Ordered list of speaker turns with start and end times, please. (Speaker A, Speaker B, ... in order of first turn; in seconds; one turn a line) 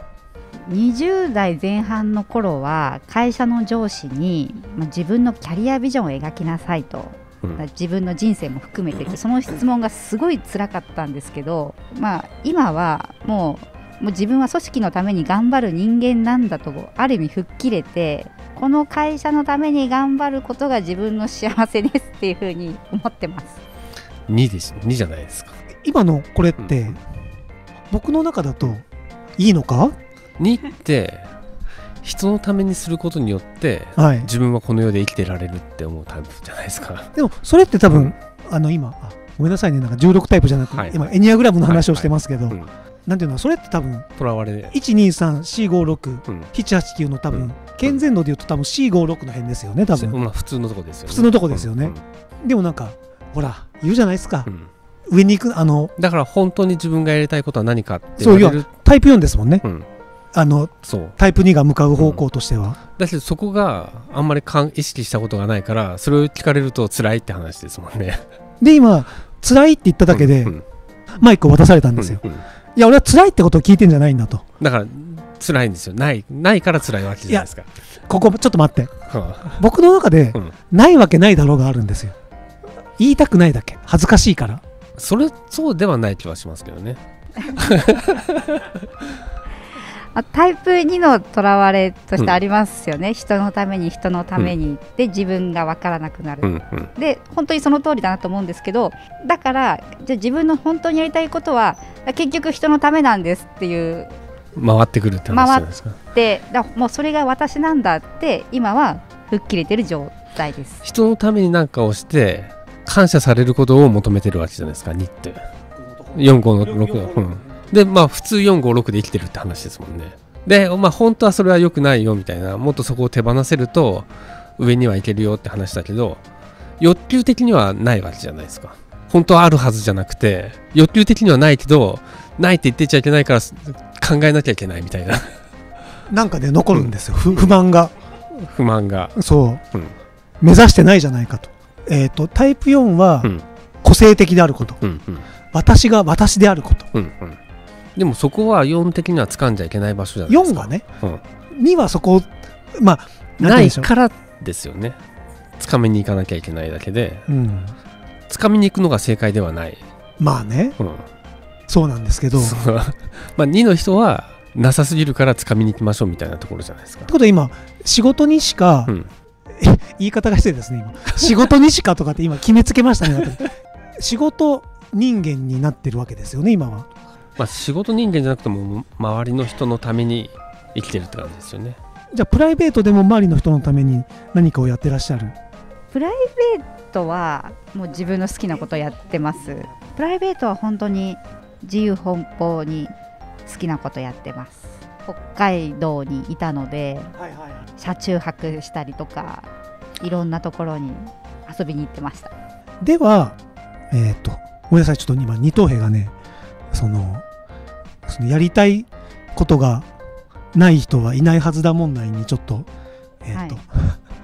Speaker A: 0.6-23.6
Speaker B: 24.3-25.5
Speaker C: 25.8-27.0
Speaker B: 26.6-26.9
Speaker C: 27.9-28.8
Speaker C: 29.4-29.9
Speaker B: 30.4-31.3
Speaker B: 32.0-37.1
Speaker C: 34.0-34.3
Speaker C: 37.1-44.1
Speaker B: 40.7-41.1
Speaker B: 41.6-42.7
Speaker B: 44.2-44.7
Speaker C: 44.7-50.2
Speaker B: 47.3-48.0
Speaker B: 49.9-52.0
Speaker C: 51.1-54.5
Speaker C: 55.1-55.9
Speaker B: 56.0-58.7
Speaker C: 58.2-59.6
Speaker C: 60.3-62.8
Speaker B: 60.8-61.1
Speaker B: 62.0-62.2
Speaker B: 63.0-68.2
Speaker C: 68.6-70.5
Speaker B: 70.1-70.6
Speaker C: 71.2-72.2
Speaker B: 72.0-72.4
Speaker C: 72.7-74.4
Speaker B: 74.6-77.7
Speaker C: 78.1-82.2
Speaker B: 79.1-79.6
Speaker C: 83.0-84.6
Speaker B: 85.0-88.7
Speaker A: 90.1-104.1
Speaker B: 96.4-96.9
Speaker B: 104.5-106.0
Speaker A: 105.3-110.8
Speaker B: 110.8-115.5
Speaker C: 115.7-117.7
Speaker B: 116.1-126.2
Speaker B: 126.8-135.3
Speaker C: 136.1-137.9
Speaker B: 136.7-137.6
Speaker B: 138.3-139.1
Speaker C: 139.2-139.6
Speaker C: 140.4-143.3
Speaker C: 143.8-144.8
Speaker B: 144.8-145.2
Speaker C: 145.5-146.9
Speaker B: 146.9-147.4
Speaker B: 147.9-151.2
Speaker C: 150.3-150.8
Speaker C: 151.5-153.9
Speaker B: 153.4-155.0
Speaker B: 155.6-157.2
Speaker C: 157.3-157.7
Speaker B: 158.3-159.8
Speaker C: 160.2-160.8
Speaker B: 160.8-161.0
Speaker C: 161.7-162.6
Speaker B: 162.3-167.1
Speaker C: 167.1-168.9
Speaker C: 169.6-176.9
Speaker B: 177.4-181.8
Speaker C: 182.1-185.3
Speaker A: 185.9-192.9
Speaker C: 188.5-189.7
Speaker A: 193.4-197.1
Speaker C: 197.2-197.7
Speaker A: 197.8-199.5
Speaker A: 200.0-202.3
Speaker C: 202.8-203.4
Speaker C: 203.9-206.1
Speaker C: 206.7-207.2
Speaker C: 208.1-209.9
Speaker C: 210.5-212.7
Speaker C: 213.2-214.0
Speaker A: 213.3-213.6